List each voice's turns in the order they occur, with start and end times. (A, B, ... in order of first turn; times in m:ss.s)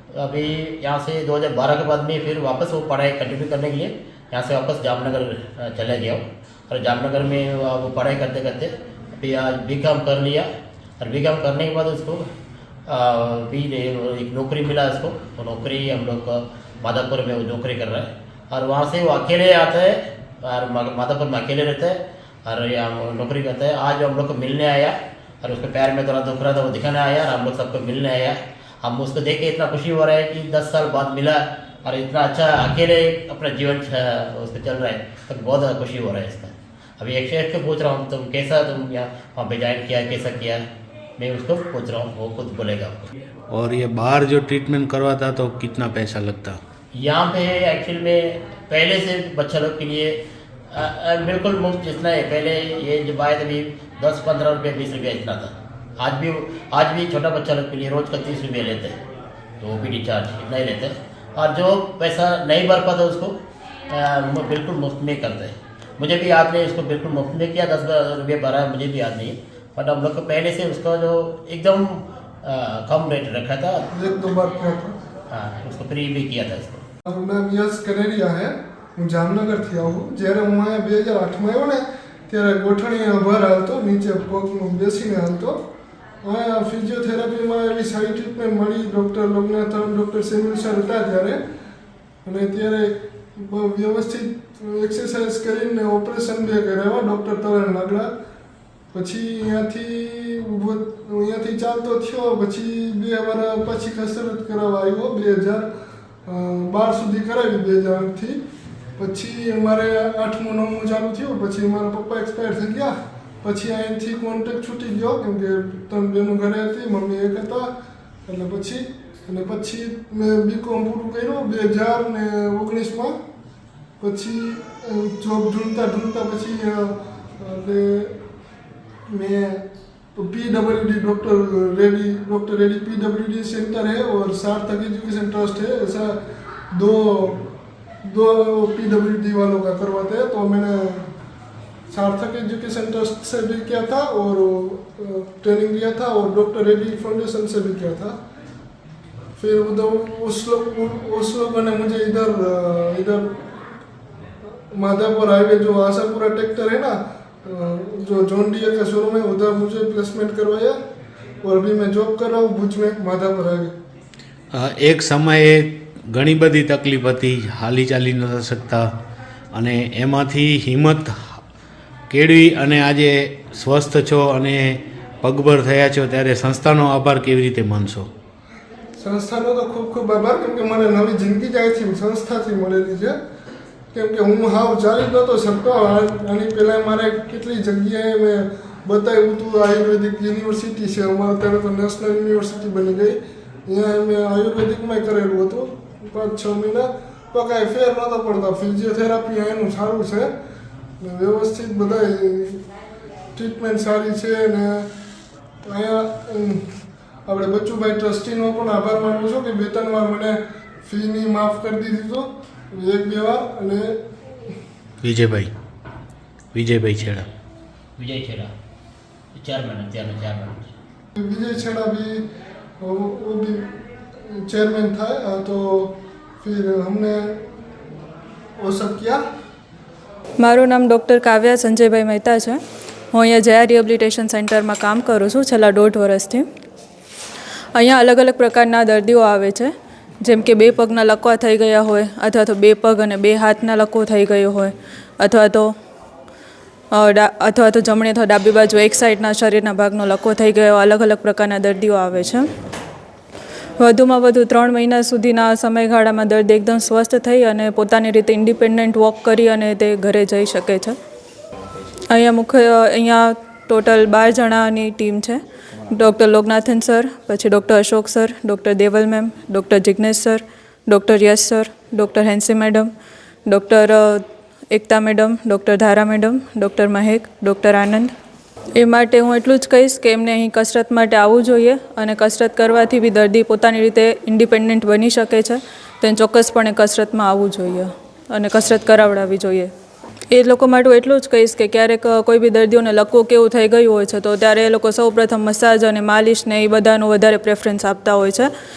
0:00.2-0:10.5 A
0:11.0-0:12.2 A
0:12.9-0:40.6 A
0:41.2-0:43.1 A
0:43.5-0:46.6 B
0:47.0-0:50.2 A
0:50.7-0:59.0 A
0:59.6-1:03.3 A
1:03.9-1:13.9 A
1:13.9-1:14.9 C
1:15.3-1:16.8 A
1:17.1-1:25.6 C
1:26.2-1:31.4 C
1:32.2-1:38.1 C
1:38.9-1:45.7 C
1:46.3-1:48.4 C
1:49.0-1:57.7 C
1:58.3-2:03.2 C
2:04.0-2:08.1 C
2:09.1-2:09.6 C
2:10.2-2:16.2 C
2:16.7-2:17.5 C
2:18.0-2:21.0 C
2:21.9-2:28.2 C
2:29.4-2:33.3 C
2:34.7-2:40.8 C
2:41.4-2:43.7 C
2:44.5-2:48.9 B
2:49.5-2:51.4 B
2:52.1-2:58.1 B
2:59.0-3:03.2 C
3:03.9-3:20.3 C
3:21.0-3:22.6 C
3:23.4-3:24.9 C
3:25.6-3:26.6 C
3:27.3-3:34.0 C
3:35.0-3:35.5 B
3:36.5-3:37.3 B
3:38.0-3:38.5 A
3:39.4-3:40.7 A
3:41.2-3:42.2 C
3:42.8-3:43.7 C
3:44.3-3:47.4 C
3:48.6-3:49.2 C
3:50.4-3:52.6 D
3:53.1-3:56.4 D
3:57.8-3:59.7 D
4:00.2-4:05.7 D
4:06.9-4:12.5 D
4:13.8-4:21.0 D
4:22.1-4:32.9 D
4:33.5-4:38.1 D
4:38.8-4:49.7 D
4:50.3-4:58.5 D